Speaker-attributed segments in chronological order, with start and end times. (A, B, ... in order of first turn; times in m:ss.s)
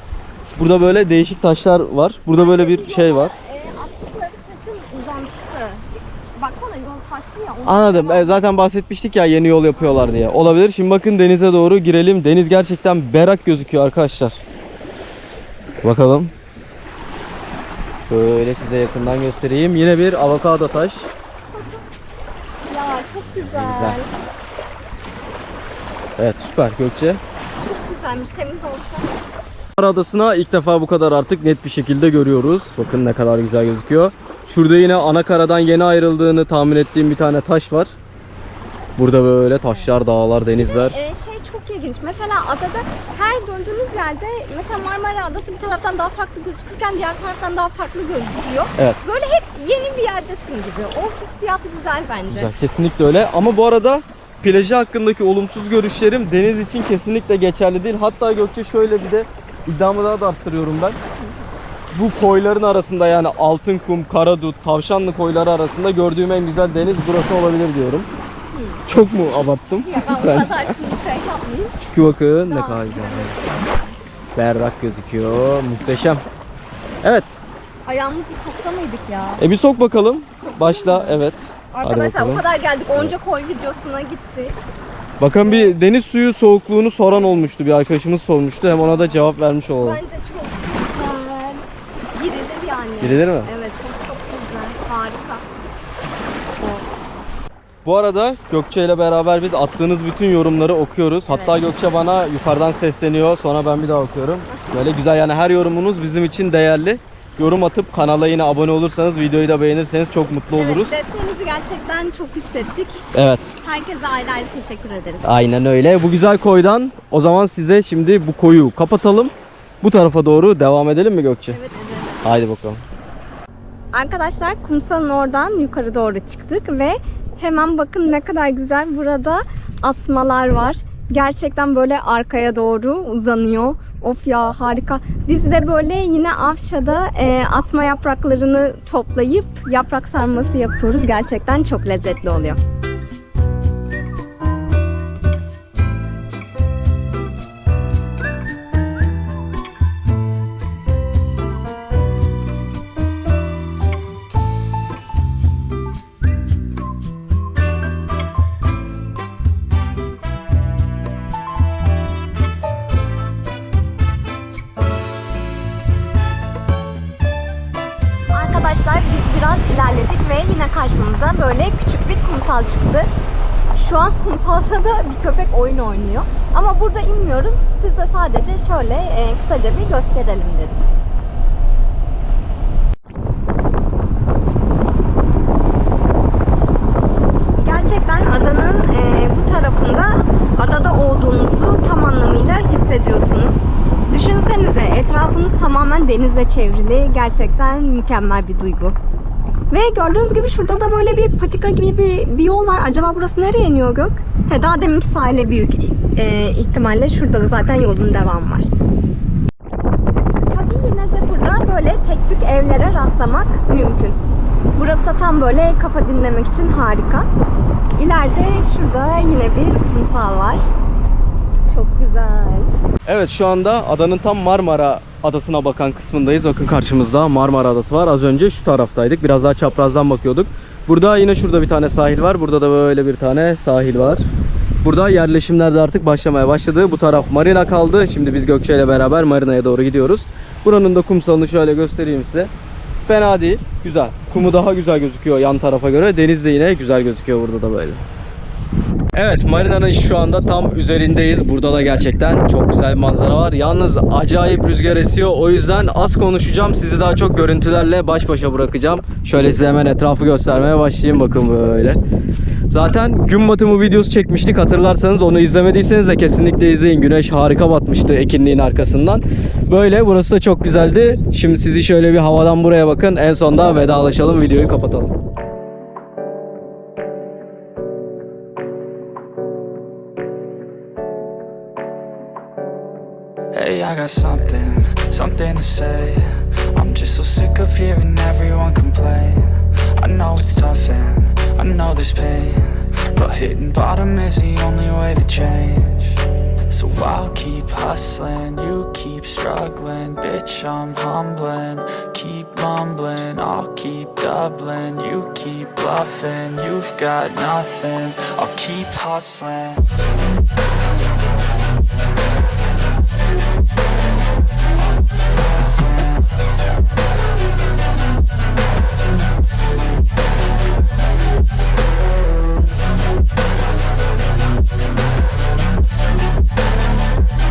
0:00.6-0:03.3 A
0:02.3-0:08.5 B
0:07.6-0:14.4 A
0:09.8-0:10.2 B
0:15.8-0:16.3 A
0:18.1-0:21.1 A
0:21.5-0:21.8 B
0:22.7-0:24.1 B
0:23.5-0:24.0 A
0:26.2-0:27.2 A
0:27.6-0:29.1 B
0:29.8-0:37.9 A
0:39.0-0:41.0 A
0:40.6-0:52.5 B
0:52.3-1:01.0 A
1:01.1-1:01.5 B
1:01.9-1:08.1 A
1:08.5-1:08.8 B
1:08.9-1:10.8 A
1:09.8-1:11.8 B
1:11.8-1:13.4 A
1:12.5-1:14.0 B
1:14.4-1:16.2 A
1:17.0-1:17.3 A
1:17.8-1:19.4 B
1:19.4-1:23.2 A
1:20.4-1:24.6 B
1:25.2-1:30.0 A
1:25.4-1:25.8 B
1:27.1-1:27.5 B
1:28.7-1:29.2 B
1:29.8-1:35.4 B
1:33.0-1:33.5 A
1:37.8-1:50.9 A
1:41.3-1:41.6 B
1:44.5-1:44.9 B
1:50.5-1:53.1 B
1:53.1-1:53.6 A
1:53.6-1:55.4 B
1:55.2-2:01.6 A
2:01.5-2:02.4 B
2:02.2-2:02.8 A
2:03.9-2:22.6 B
2:48.3-2:53.1 B
2:53.7-3:00.8 B
3:07.6-3:19.0 B
3:19.7-3:28.7 B
3:30.5-3:34.2 B
3:34.8-3:37.3 B
3:38.0-3:40.7 B
3:41.7-3:42.7 B
3:43.1-3:54.3 A
3:54.8-4:02.5 A
4:03.0-4:08.0 A
4:09.1-4:22.0 A
4:22.7-4:35.1 A
4:43.5-5:09.9 C